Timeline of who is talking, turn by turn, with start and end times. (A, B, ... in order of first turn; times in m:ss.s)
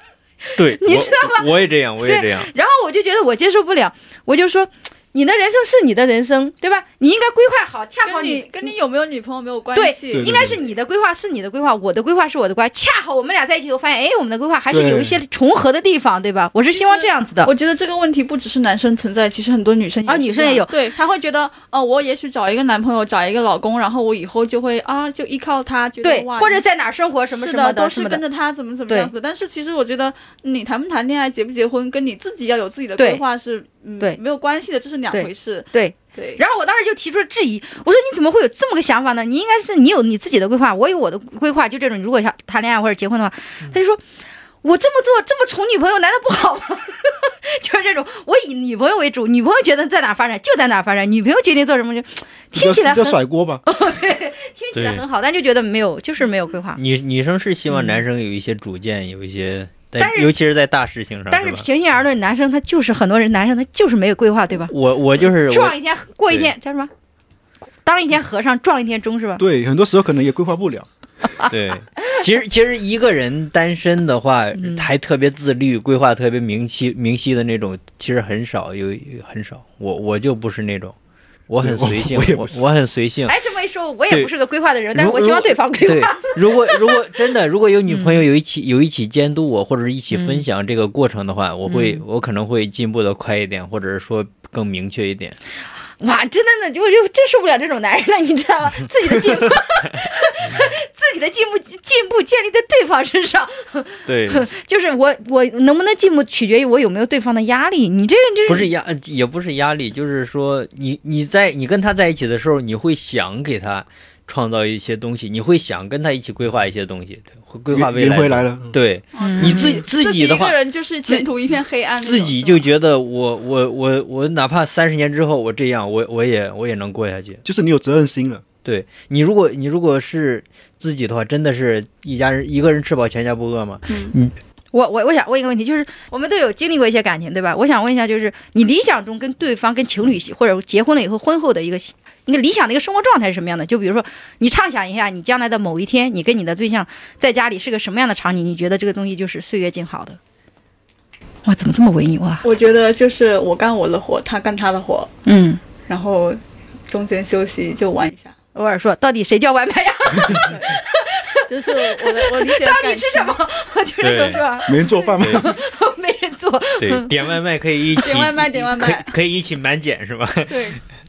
0:00.5-0:08.7 A
0:00.6-0:02.5 B
0:08.0-0:10.5 C
0:09.7-0:17.5 A
0:10.1-0:10.6 D
0:14.7-0:15.2 D
0:16.7-0:26.6 C
0:20.0-0:20.8 A
0:26.0-0:28.2 A
0:27.3-0:36.4 C
0:35.1-0:44.0 A
0:44.6-0:56.8 A
0:52.5-0:53.6 D
0:54.7-0:55.0 B
0:56.8-1:01.6 B
0:57.7-0:58.0 A
1:00.0-1:00.3 A
1:01.3-1:06.9 A
1:04.7-1:05.7 B
1:07.8-1:09.4 A
1:09.4-1:10.9 D
1:11.5-1:20.9 B
1:21.5-1:23.3 B
1:21.6-1:22.6 D
1:23.3-1:27.0 A
1:24.9-1:35.4 B
1:27.9-1:28.2 A
1:30.1-1:30.4 A
1:31.7-1:32.0 A
1:36.0-1:48.7 A
1:44.1-1:44.4 B
1:48.5-2:01.2 B
1:57.7-1:58.8 D
1:59.1-2:02.7 C
1:59.2-1:59.8 A
2:02.0-2:07.4 B
2:07.4-2:08.4 D
2:08.6-2:14.3 B
2:13.9-2:14.1 C
2:14.7-2:30.2 A
2:31.4-2:32.4 A
2:32.4-2:35.1 C
2:35.2-2:35.6 A
2:35.8-2:38.3 C
2:38.5-2:47.2 A
2:40.4-2:43.3 C
2:44.0-2:44.4 B
2:44.7-2:45.6 D
2:45.2-2:45.5 B
2:46.8-2:50.8 B
2:48.0-2:49.1 C
2:50.5-2:50.8 C